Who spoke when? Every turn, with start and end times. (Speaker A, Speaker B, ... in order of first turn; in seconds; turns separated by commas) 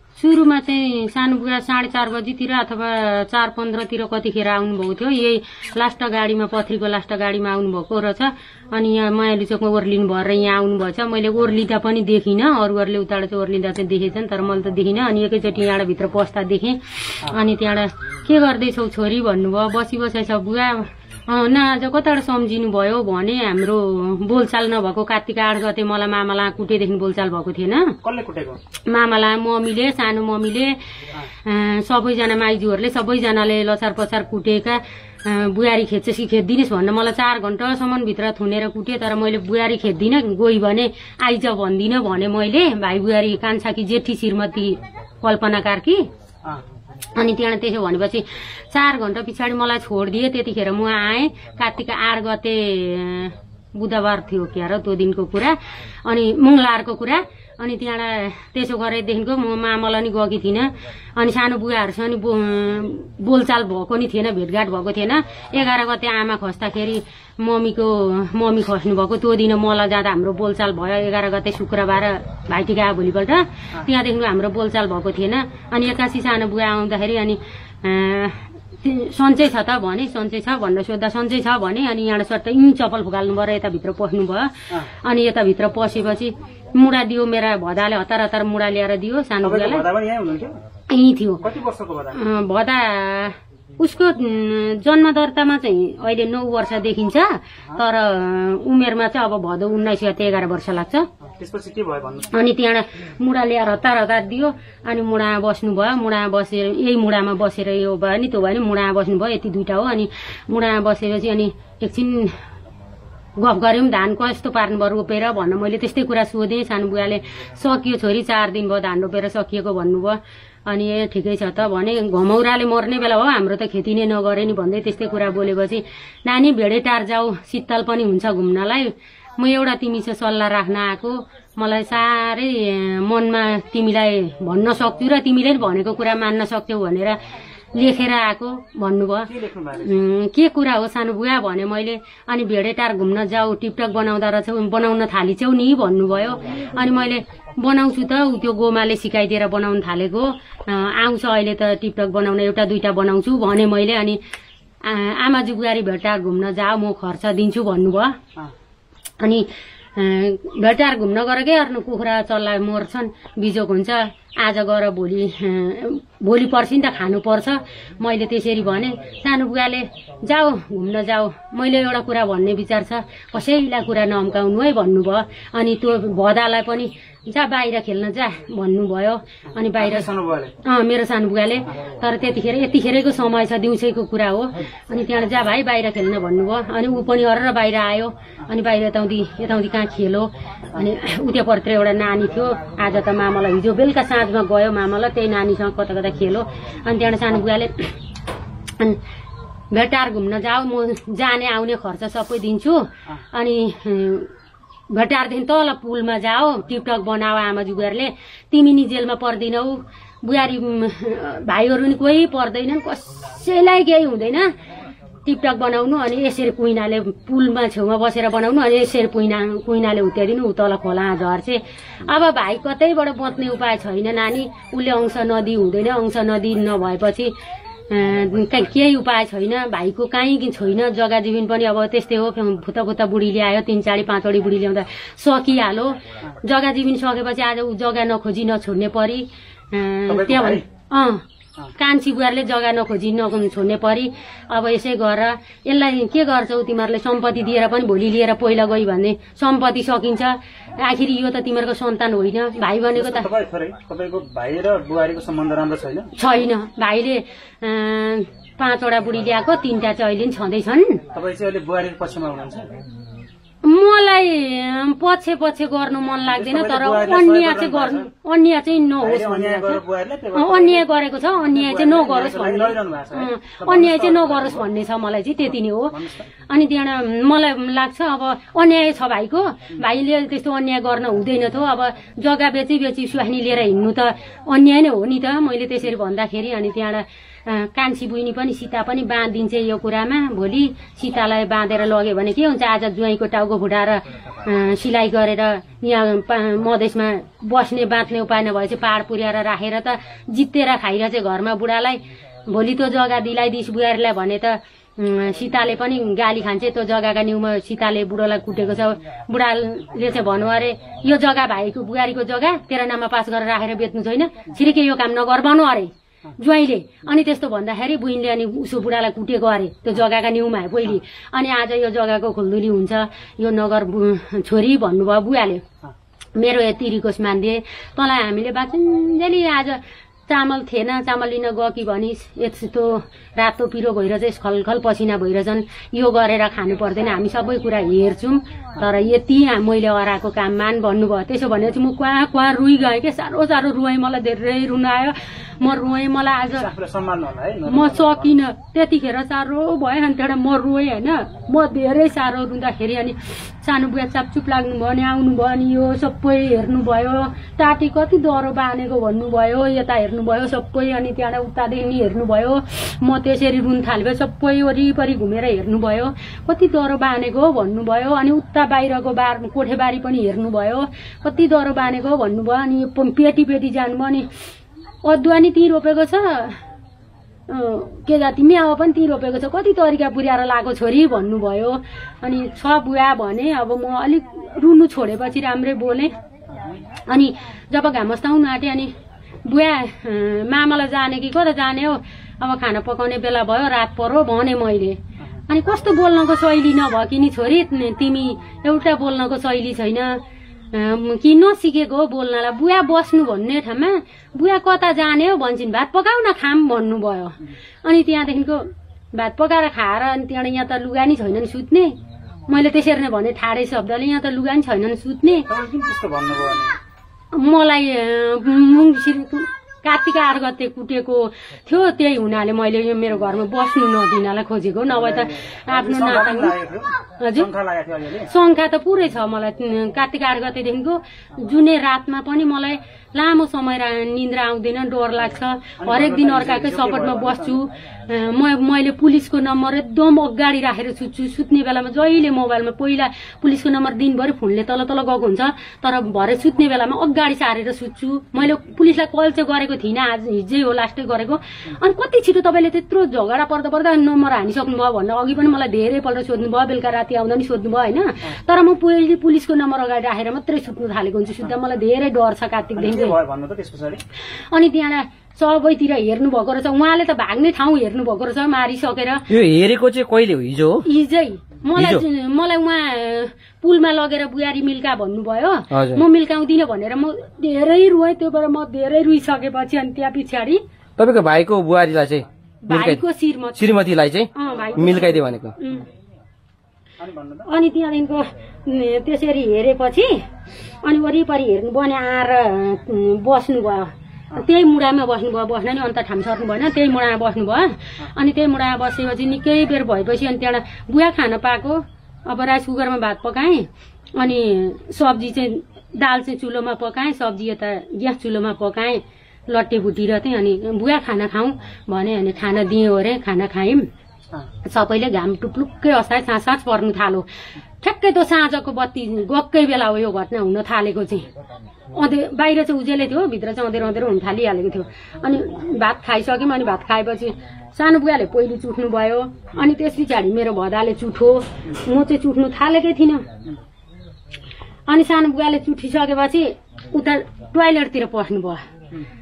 Speaker A: 0.2-27.9, Speaker B: 28.0-28.6, Speaker A: 28.9-30.8, Speaker A: 31.4-46.0, Speaker A: 47.1-89.9, Speaker B: 89.4-90.6, Speaker A: 90.9-91.4, Speaker B: 91.4-92.2, Speaker A: 92.2-101.1, Speaker B: 101.3-102.4, Speaker A: 102.3-112.3, Speaker A: 113.4-137.2, Speaker A: 137.7-139.3, Speaker B: 139.3-140.0, Speaker A: 139.8-154.2, Speaker A: 154.8-158.2, Speaker A: 160.0-180.1, Speaker B: 179.5-180.5, Speaker A: 180.6-197.9, Speaker A: 199.7-204.3, Speaker A: 204.9-214.5, Speaker A: 215.2-227.3, Speaker A: 227.9-241.2, Speaker B: 240.1-240.6, Speaker A: 241.8-253.3, Speaker B: 252.9-256.1, Speaker A: 256.2-261.0, Speaker B: 261.1-262.7, Speaker A: 263.6-269.8, Speaker B: 266.3-268.1, Speaker B: 269.0-270.9, Speaker A: 270.3-275.9, Speaker B: 271.5-274.6, Speaker B: 275.9-276.3, Speaker A: 276.5-325.6, Speaker A: 326.4-346.7, Speaker B: 346.4-348.4, Speaker A: 347.7-374.3, Speaker A: 375.0-376.6, Speaker A: 377.5-386.1, Speaker B: 386.5-386.8, Speaker A: 387.1-388.9, Speaker A: 389.4-400.2, Speaker A: 400.7-412.0, Speaker A: 412.5-415.5, Speaker B: 415.5-416.8, Speaker A: 417.3-426.6, Speaker B: 424.9-428.3, Speaker A: 427.2-427.5, Speaker A: 428.3-463.2, Speaker B: 435.8-437.6, Speaker B: 462.8-464.0, Speaker A: 464.5-469.3, Speaker C: 469.3-470.8, Speaker A: 470.9-480.6, Speaker C: 471.8-472.0, Speaker C: 475.7-476.0, Speaker C: 481.0-483.0, Speaker A: 482.7-483.7, Speaker C: 483.6-485.6, Speaker A: 484.4-485.9, Speaker B: 484.4-485.9, Speaker B: 487.0-487.5, Speaker A: 487.5-490.2, Speaker A: 490.8-513.9, Speaker A: 514.6-517.3, Speaker A: 517.8-521.3, Speaker A: 521.9-533.3, Speaker A: 534.9-538.6